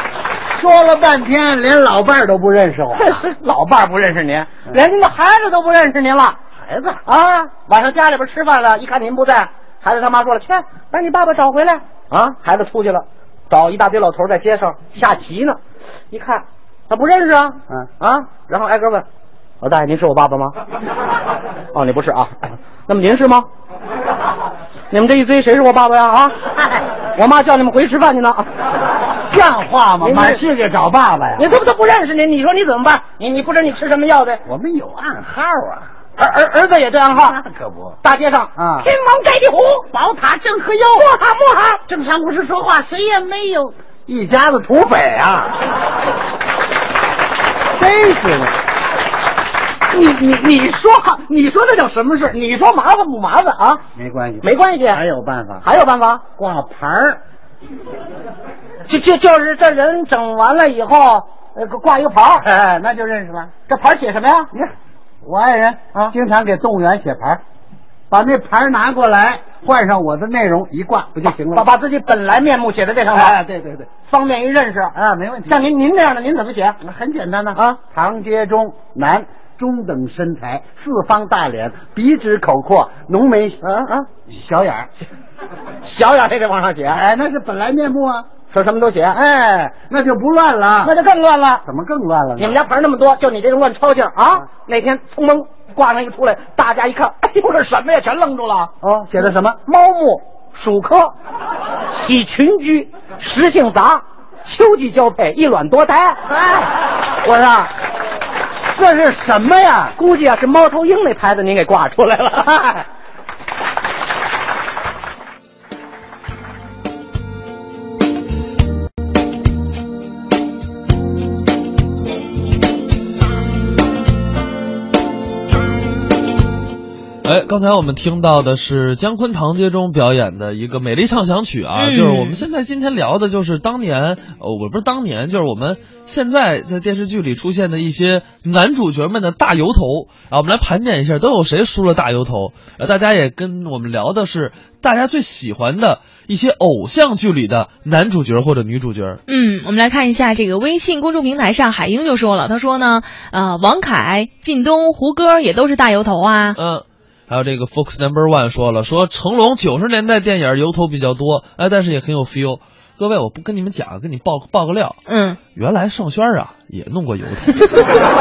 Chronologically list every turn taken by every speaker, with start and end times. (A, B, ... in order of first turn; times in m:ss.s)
0:00.6-0:03.2 A
0:03.0-0:06.4 B
0:06.6-0:07.0 A
0:07.0-0:15.6 B
0:16.1-0:19.0 B
0:19.6-0:20.6 B
0:21.7-0:23.5 B
0:24.9-0:26.5 B
0:27.1-0:28.5 B
0:29.3-0:31.5 A
0:30.0-0:30.4 B
0:31.4-0:34.4 B
0:34.4-0:35.9 A
0:36.2-0:37.4 B
0:37.1-0:38.0 A
0:38.0-0:39.9 B
0:38.6-0:38.9 A
0:39.9-0:41.1 A
0:41.0-0:41.8 B
0:41.8-0:45.6 A
0:47.8-0:48.5 A
0:49.9-0:53.8 B
0:53.9-0:55.6 A
0:54.4-0:55.0 B
0:55.6-0:56.2 B
0:56.4-0:57.2 A
0:58.9-1:02.4 B
1:02.4-1:03.5 A
1:03.7-1:04.5 B
1:05.2-1:07.4 A
1:08.1-1:11.7 A
1:11.5-1:13.4 B
1:13.1-1:13.9 A
1:14.0-1:14.9 B
1:14.9-1:15.7 A
1:15.5-1:16.8 B
1:16.8-1:23.6 A
1:23.6-1:24.1 B
1:24.3-1:24.9 A
1:25.8-1:27.0 B
1:26.9-1:28.3 A
1:28.5-1:29.2 B
1:29.1-1:31.0 A
1:30.8-1:31.6 B
1:31.6-1:32.6 A
1:32.4-1:38.7 B
1:38.8-1:39.6 A
1:39.6-1:41.1 B
1:41.9-1:46.3 B
1:47.2-1:47.6 A
1:48.7-1:49.9 A
1:50.0-1:52.8 B
2:07.2-2:29.2 C
2:11.8-2:12.4 D
2:29.3-2:36.6 D
2:36.6-2:45.0 C
2:45.1-2:45.4 D
2:45.5-2:48.0 C